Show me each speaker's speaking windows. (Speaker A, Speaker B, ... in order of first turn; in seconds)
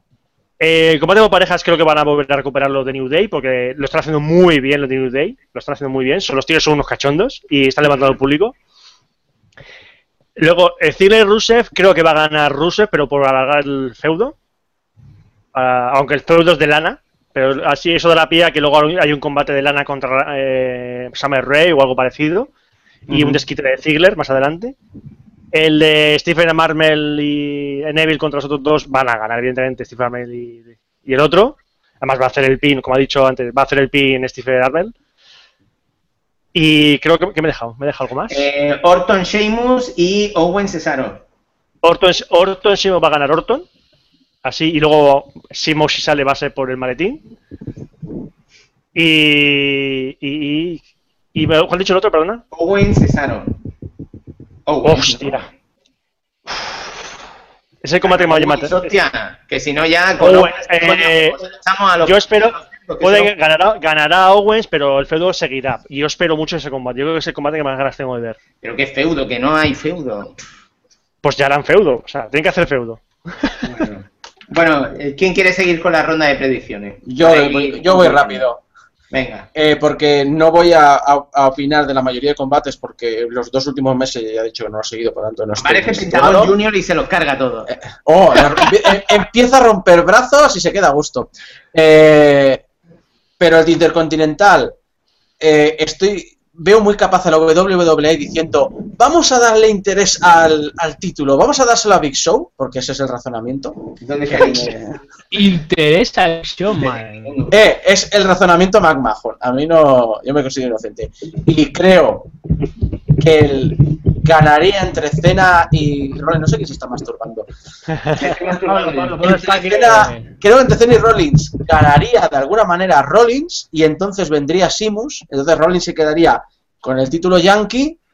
Speaker A: 0.6-8.5, 10.4-14.3, 15.5-22.5, 23.1-24.8, 25.5-34.9, 36.5-38.5, 41.8-43.6, 44.4-47.2, 48.9-50.8, 51.3-52.4, 54.8-55.5, 56.5-57.0, 57.8-58.8, 60.2-61.4, 62.0-68.4, 71.2-73.6
Speaker B: 23.1-23.4, 77.0-78.6, 79.5-86.5, 87.7-92.6, 93.4-94.7, 95.4-103.8, 104.3-104.9, 107.5-112.3, 113.2-117.5, 119.2-128.0
Speaker C: 38.3-41.2, 52.5-53.5, 54.6-55.4, 58.0-63.3, 68.6-70.3, 73.6-78.4, 79.1-79.5, 85.6-87.7, 104.0-104.7, 106.8-107.5, 118.1-119.4
Speaker D: 105.3-107.3, 118.6-120.3